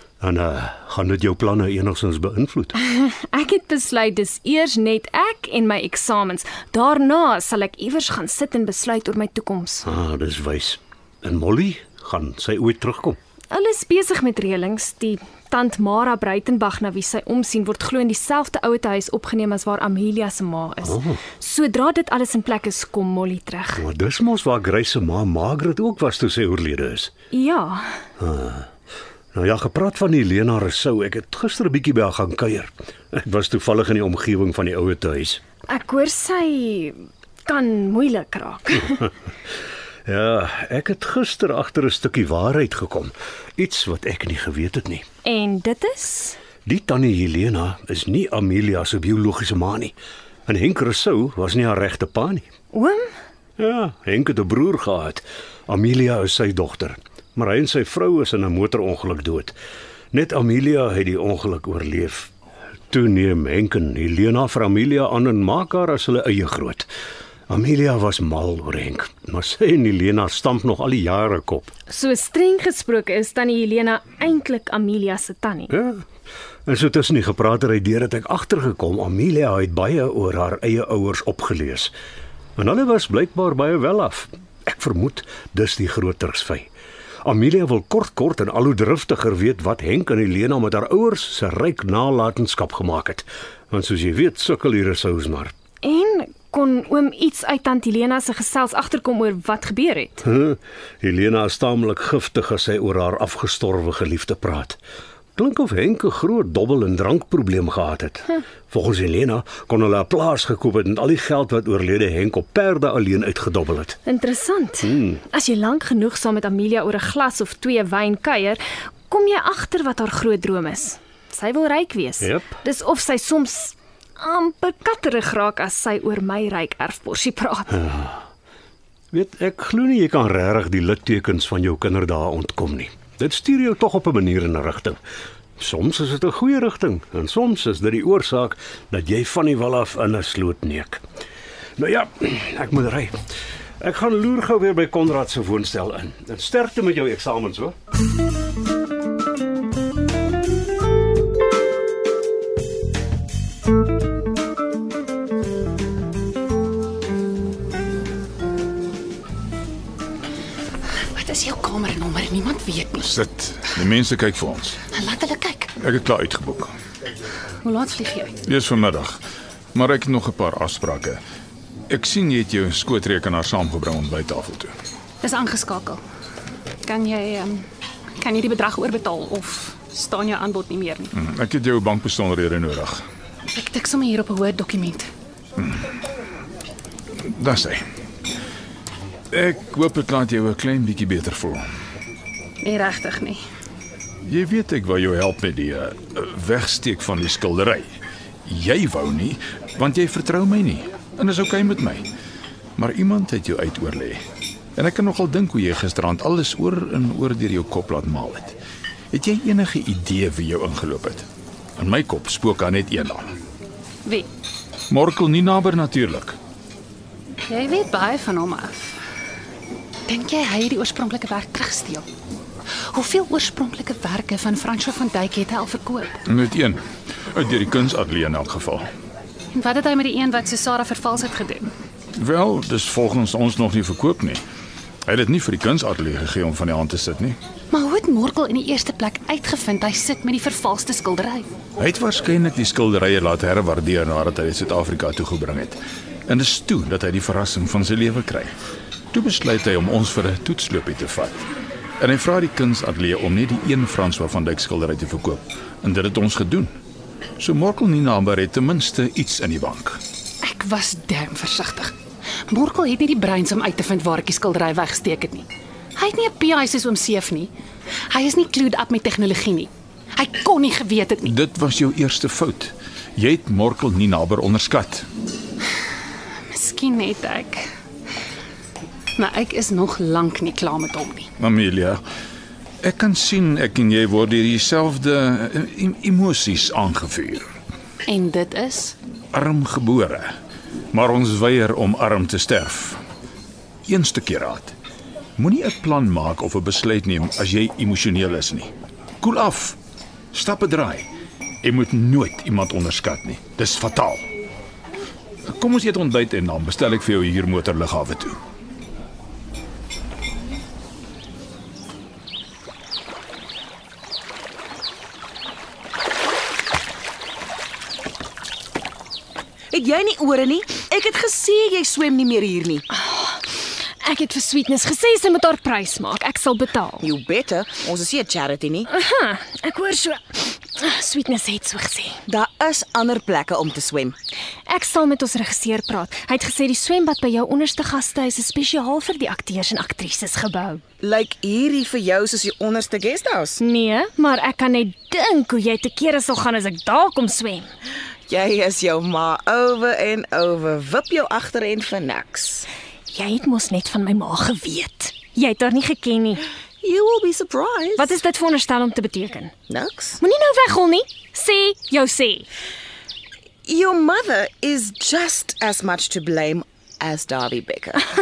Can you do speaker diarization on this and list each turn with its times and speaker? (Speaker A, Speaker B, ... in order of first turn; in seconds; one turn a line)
Speaker A: 0.2-2.7
Speaker B: 2.8-9.9
Speaker A: 9.9-13.2
Speaker B: 13.5-23.9
Speaker A: 20.9-21.2
Speaker A: 23.8-27.1
Speaker B: 27.3-28.0
Speaker A: 28.2-28.7
Speaker A: 29.3-35.4
Speaker B: 35.7-39.1
Speaker A: 40.1-45.1
Speaker B: 45.2-46.4
Speaker A: 46.7-49.9
Speaker A: 50.5-52.5
Speaker B: 52.7-53.1
Speaker A: 53.6-59.6
Speaker A: 60.1-62.3
Speaker A: 62.9-66.9
Speaker A: 67.5-71.7
Speaker B: 71.9-75.7
Speaker A: 75.7-76.0
Speaker A: 76.7-81.9
Speaker A: 82.6-86.7
Speaker A: 87.2-95.5
Speaker B: 95.8-100.2
Speaker A: 100.2-104.8
Speaker A: 105.4-114.0
Speaker B: 114.1-127.8
Speaker A: 114.9-115.2
Speaker A: 122.2-122.5
Speaker A: 129.1-135.0
Speaker A: 135.6-141.0
Speaker A: 141.8-143.2
Speaker A: 143.8-147.8
Speaker C: 161.1-163.1
Speaker D: 163.0-164.8
Speaker C: 164.9-165.7
Speaker D: 165.8-166.7
Speaker C: 167.6-168.3
Speaker D: 168.4-169.2
Speaker D: 169.7-171.2
Speaker D: 171.9-174.7
Speaker C: 175.2-176.0
Speaker C: 176.8-177.7
Speaker C: 178.2-181.1
Speaker D: 181.1-183.1
Speaker C: 183.5-185.1
Speaker D: 185.6-185.9
Speaker D: 187.2-187.8
Speaker D: 189.3-191.7
Speaker C: 192.6-193.4
Speaker D: 194.2-197.9
Speaker D: 198.5-202.1
Speaker D: 202.8-204.2
Speaker D: 204.8-208.6
Speaker D: 209.1-211.3
Speaker D: 211.8-213.3
Speaker D: 214.9-216.4
Speaker C: 217.5-219.0
Speaker C: 220.1-222.1
Speaker C: 222.9-226.2
Speaker D: 226.3-228.9
Speaker C: 229.5-231.7
Speaker D: 232.2-234.4
Speaker D: 235.1-237.4
Speaker C: 237.7-241.5
Speaker D: 241.8-248.5
Speaker D: 249.1-251.5
Speaker D: 252.0-256.8
Speaker D: 257.4-260.0
Speaker C: 260.4-261.9
Speaker C: 262.5-267.5
Speaker C: 268.1-271.3
Speaker D: 271.2-275.1
Speaker C: 276.5-277.7
Speaker C: 279.2-281.3
Speaker D: 281.4-282.0
Speaker D: 282.8-287.5
Speaker C: 288.1-289.0
Speaker D: 289.3-290.3
Speaker D: 290.9-293.0
Speaker D: 293.9-294.8
Speaker D: 295.4-299.8
Speaker D: 300.3-301.1
Speaker D: 301.6-304.3
Speaker D: 305.5-308.4
Speaker E: 319.7-322.9
Speaker B: 323.1-323.4
Speaker B: 324.0-327.1
Speaker E: 327.0-328.9
Speaker B: 328.9-332.2
Speaker E: 332.3-334.2
Speaker B: 334.7-340.8
Speaker E: 341.0-343.6
Speaker B: 343.6-347.7
Speaker E: 348.3-352.7
Speaker B: 353.1-356.4
Speaker E: 356.8-358.1
Speaker B: 358.0-359.5
Speaker E: 359.7-360.2
Speaker B: 360.2-362.5
Speaker E: 363.7-368.0